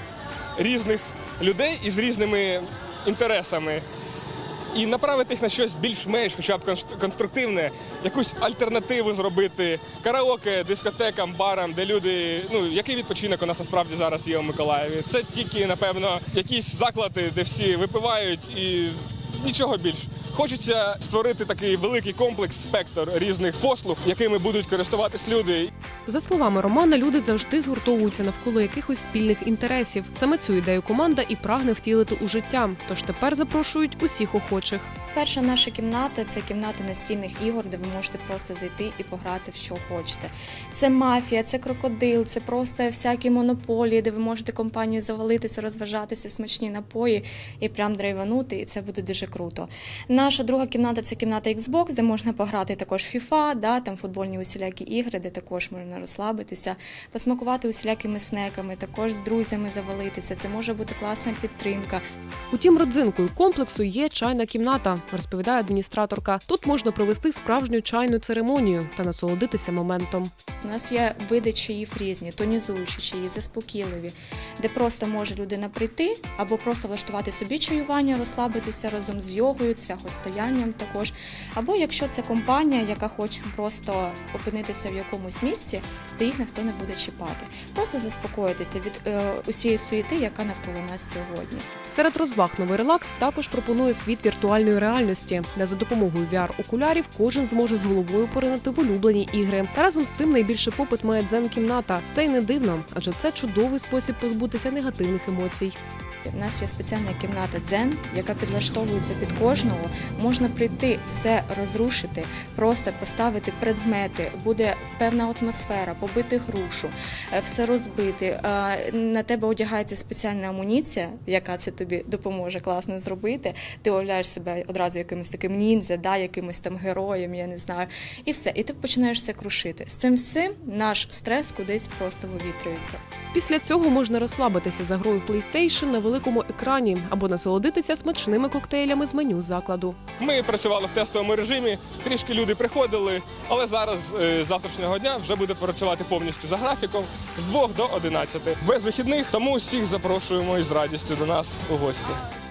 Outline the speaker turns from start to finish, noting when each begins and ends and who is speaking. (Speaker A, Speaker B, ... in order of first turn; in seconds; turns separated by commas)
Speaker A: 0.6-3.8, Speaker A: 4.7-25.7, Speaker B: 26.1-34.9, Speaker C: 35.1-62.0, Speaker B: 62.5-70.3, Speaker C: 70.6-91.7, Speaker B: 91.9-105.8, Speaker C: 106.3-133.0, Speaker B: 133.3-140.0, Speaker A: 140.2-152.2